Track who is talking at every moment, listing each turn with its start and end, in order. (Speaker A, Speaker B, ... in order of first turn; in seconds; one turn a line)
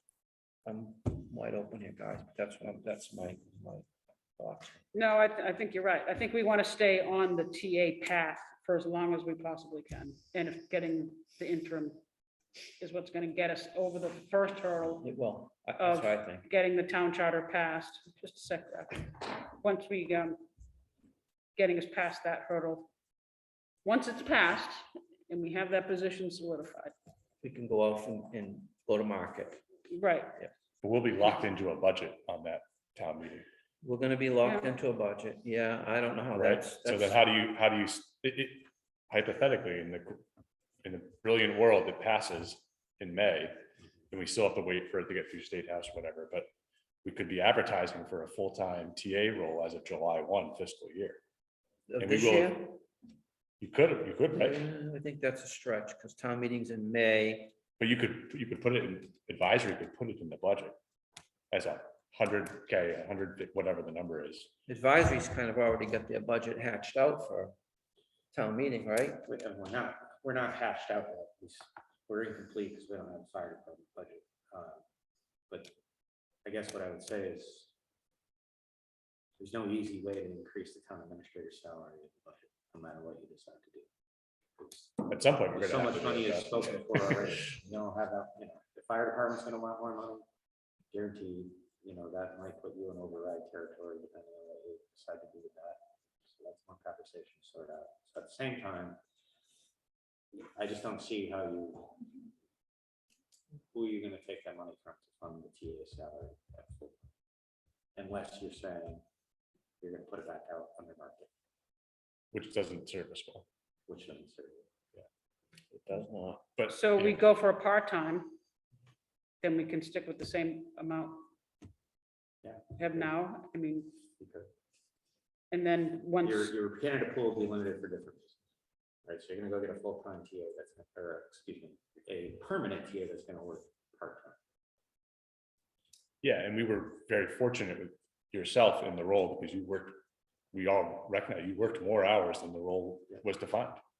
Speaker A: 0.7-3.9
Speaker A: 4.4-4.8
Speaker B: 4.9-12.0
Speaker B: 12.8-15.1
Speaker A: 15.0-16.5
Speaker B: 15.8-20.4
Speaker B: 21.6-22.9
Speaker B: 23.9-26.9
Speaker A: 27.4-29.6
Speaker B: 29.9-30.3
Speaker C: 30.8-33.5
Speaker A: 33.8-37.2
Speaker C: 36.4-40.2
Speaker C: 40.8-43.6
Speaker C: 44.1-46.5
Speaker C: 47.0-51.2
Speaker A: 51.9-52.8
Speaker C: 52.0-52.6
Speaker C: 53.6-54.6
Speaker A: 54.3-57.5
Speaker C: 57.8-60.8
Speaker C: 61.5-64.5
Speaker A: 64.7-67.5
Speaker A: 68.3-69.3
Speaker D: 69.3-74.8
Speaker D: 76.5-77.7
Speaker D: 79.4-83.9
Speaker D: 84.6-90.2
Speaker C: 85.1-87.1
Speaker D: 90.9-99.0
Speaker D: 100.3-101.9
Speaker D: 103.7-107.0
Speaker D: 108.0-109.0
Speaker D: 109.8-111.3
Speaker C: 112.3-113.5
Speaker D: 113.9-114.7
Speaker A: 115.7-116.5
Speaker C: 116.6-117.2
Speaker B: 116.7-118.3
Speaker B: 119.4-121.3
Speaker D: 122.4-123.1
Speaker B: 122.8-123.9
Speaker D: 124.2-124.5
Speaker B: 125.5-126.5
Speaker D: 126.2-128.4
Speaker D: 129.1-134.4
Speaker C: 136.2-140.0
Speaker C: 140.5-143.8